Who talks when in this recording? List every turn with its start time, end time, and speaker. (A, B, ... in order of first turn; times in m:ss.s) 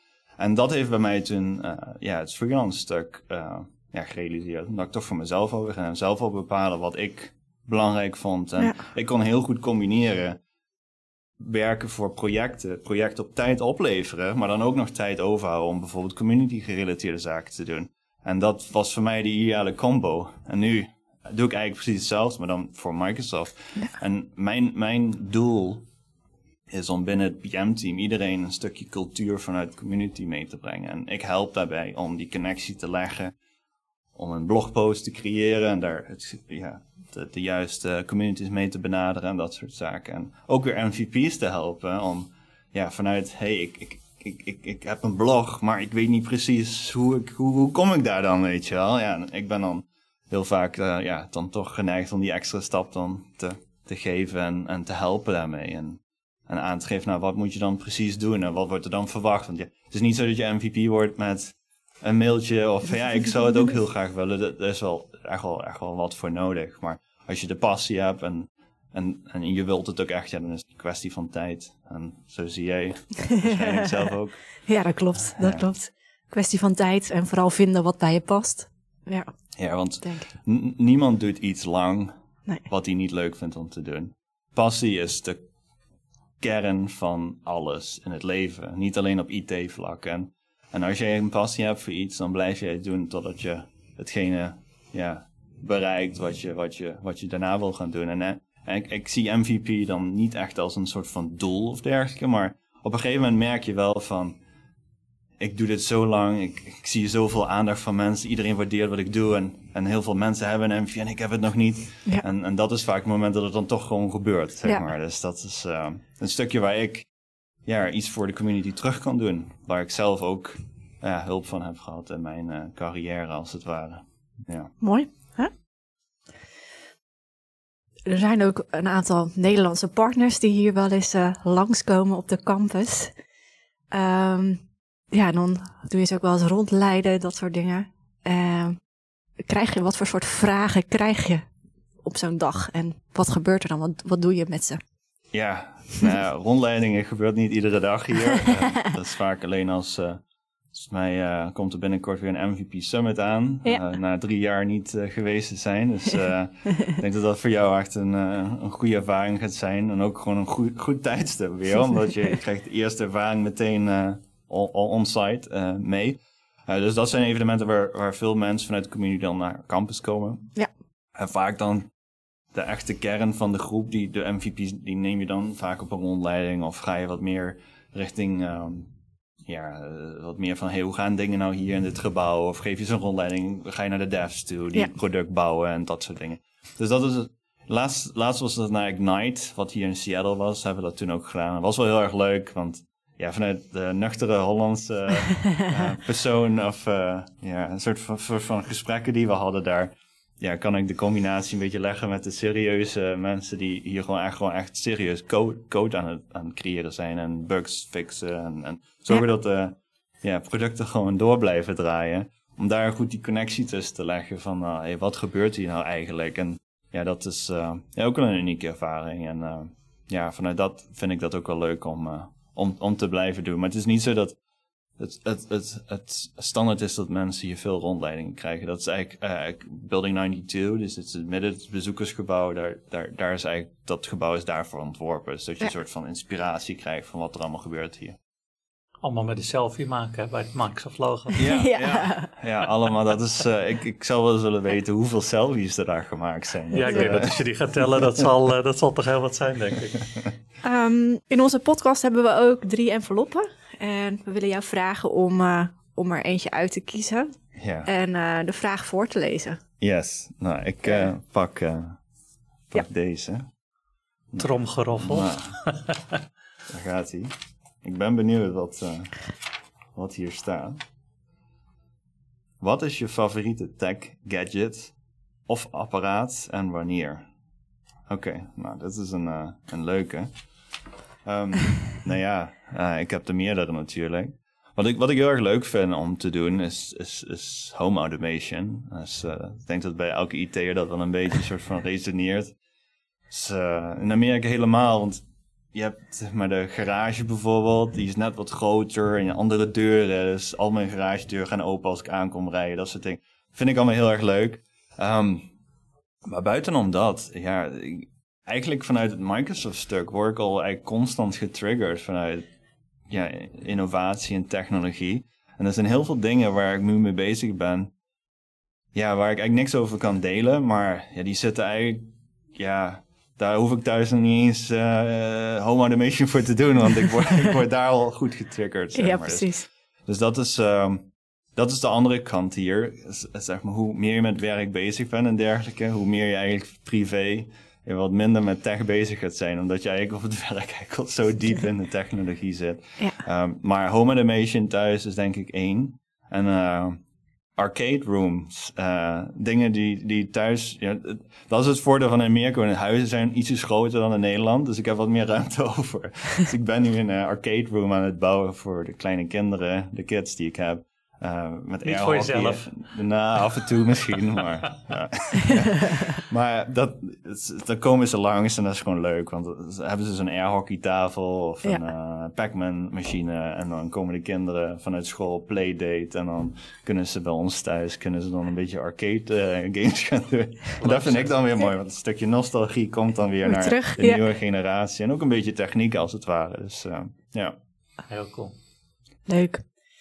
0:00.4-0:10.4 A
0:11.4-0:25.8 A
0:26.7-0:33.3 A
0:34.2-1:14.4 A
1:13.2-1:14.1 B
1:14.6-1:19.3 B
1:15.4-1:15.6 A
1:19.6-1:22.1 A
1:20.0-1:20.3 B
1:22.6-1:25.4 A
1:26.4-1:44.4 A
1:45.4-1:57.1 A
1:57.6-2:04.7 A
2:04.8-2:05.5 B
2:08.0-2:13.1 B
2:13.9-2:18.8 B
2:19.5-2:21.4 B
2:22.0-2:24.8 B
2:25.3-2:30.2 A
2:30.7-2:50.5 A
2:51.1-2:51.9 A
2:52.5-2:58.9 A
2:59.4-3:44.4 A
3:45.0-3:58.2 A
3:59.0-4:01.5 C
4:01.4-4:07.4 A
4:01.5-4:02.3 B
4:06.7-4:10.2 C
4:06.9-4:07.1 B
4:10.6-4:17.3 B
4:17.6-4:17.9 A
4:17.8-4:19.6 B
4:19.8-4:22.0 A
4:22.7-4:23.5 A
4:24.3-4:25.6 A
4:24.4-4:26.2 C
4:26.7-4:27.3 A
4:27.8-4:29.2 A
4:29.9-4:30.8 A
4:32.6-4:34.9 A
4:35.5-4:37.2 A
4:38.1-4:40.3 A
4:41.2-4:52.5 A
4:53.3-4:55.2 A
4:55.7-5:05.5 A
5:06.2-5:12.4 A
5:13.1-5:17.9 A
5:18.9-5:22.0 A
5:22.5-5:29.5 A
5:28.9-5:29.7 B
5:30.0-5:47.0 A
5:47.6-6:27.6 A
6:01.8-6:02.9 C
6:20.8-6:21.4 C
6:23.4-6:24.2 B
6:28.1-6:28.5 C
6:29.3-6:29.6 B